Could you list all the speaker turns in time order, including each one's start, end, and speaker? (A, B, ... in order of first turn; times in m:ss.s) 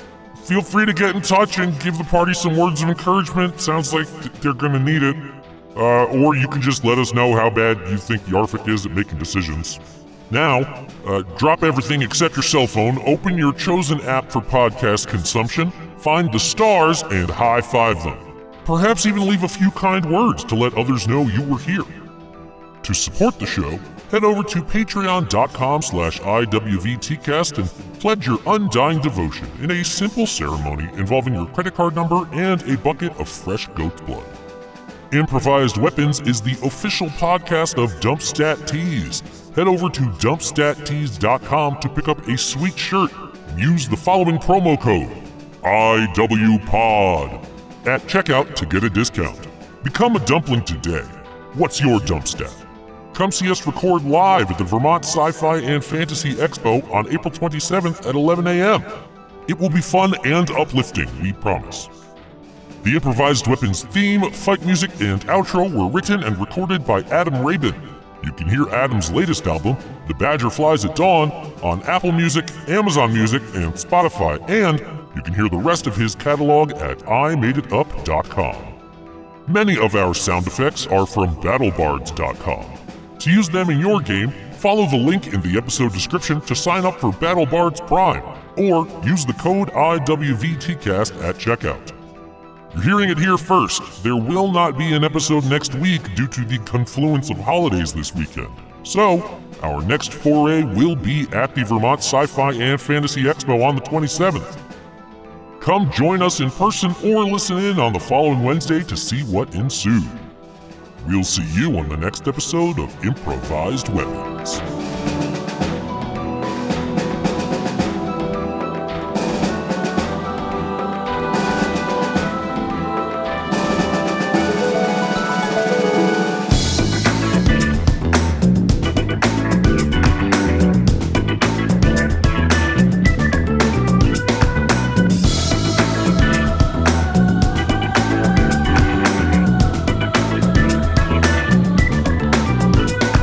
0:00.4-0:22.1 A
0:22.8-0:34.4 A
0:35.1-1:01.9 A
1:02.8-1:18.8 A
1:19.5-1:32.0 A
1:32.7-1:44.6 A
1:45.6-1:50.3 A
1:51.0-1:54.6 A